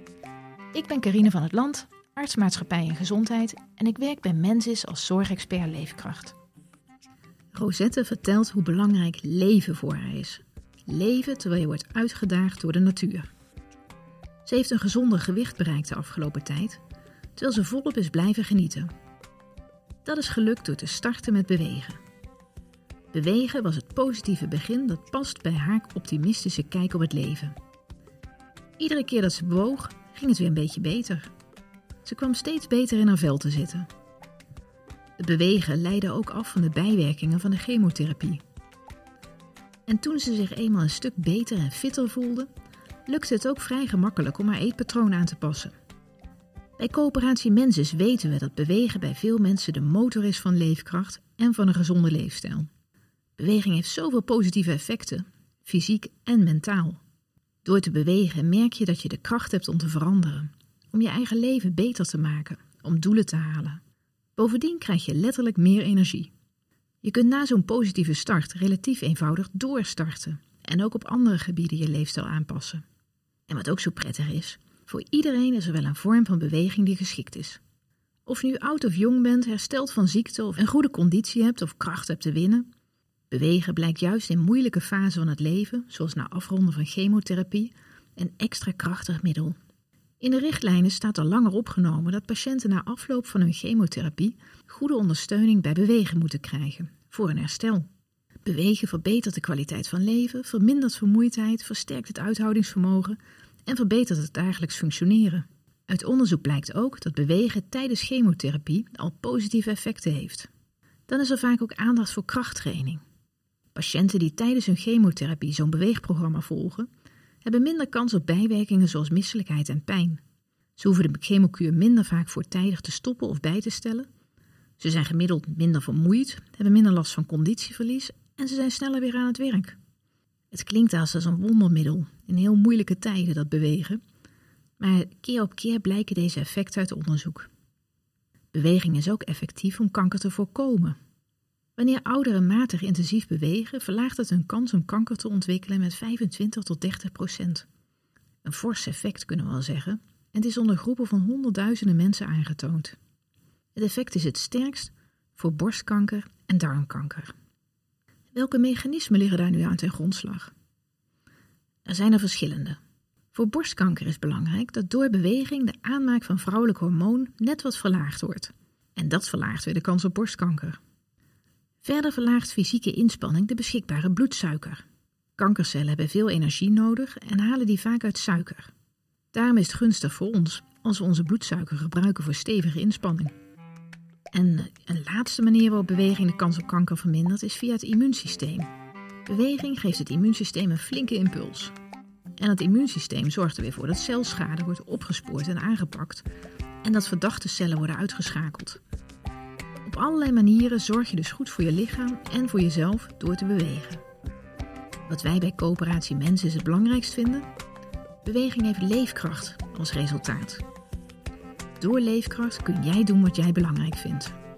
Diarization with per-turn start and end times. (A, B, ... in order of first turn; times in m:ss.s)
0:00.7-0:06.3 A
0:07.5-0:13.3 A
0:14.4-0:16.8 A
0:17.4-0:18.9 A
0:20.0-0:22.0 A
0:23.1-0:27.5 A
0:28.8-0:31.3 A
0:32.0-0:33.9 A
0:35.2-0:38.4 A
0:39.9-0:42.5 A
0:43.1-0:45.7 A
0:46.8-0:52.7 A
0:53.4-0:57.0 A
0:57.6-1:03.8 A
1:04.4-1:06.3 A
1:07.0-1:12.8 A
1:13.5-1:17.6 A
1:18.2-1:22.6 A
1:23.3-1:29.6 A
1:30.2-1:37.8 A
1:38.4-1:50.5 A
1:51.1-1:53.0 A
1:53.7-1:56.9 A
1:57.4-2:00.2 A
2:00.8-2:04.1 A
2:04.8-2:09.8 A
2:10.5-2:14.0 A
2:14.8-2:17.5 A
2:18.5-2:21.0 A
2:21.8-2:27.6 A
2:28.4-2:33.0 A
2:33.7-2:37.3 A
2:38.3-2:40.5 A
2:41.8-2:42.8 A
2:43.3-2:50.8 A
2:51.8-2:54.8 A
2:55.4-2:58.7 A
2:59.3-3:03.3 A
3:04.3-3:08.7 A
3:09.3-3:11.7 A
3:12.4-3:16.2 A
3:16.8-3:18.8 A
3:19.8-3:24.0 A
3:25.1-3:27.5 A
3:28.2-3:30.6 A
3:31.8-3:34.3 A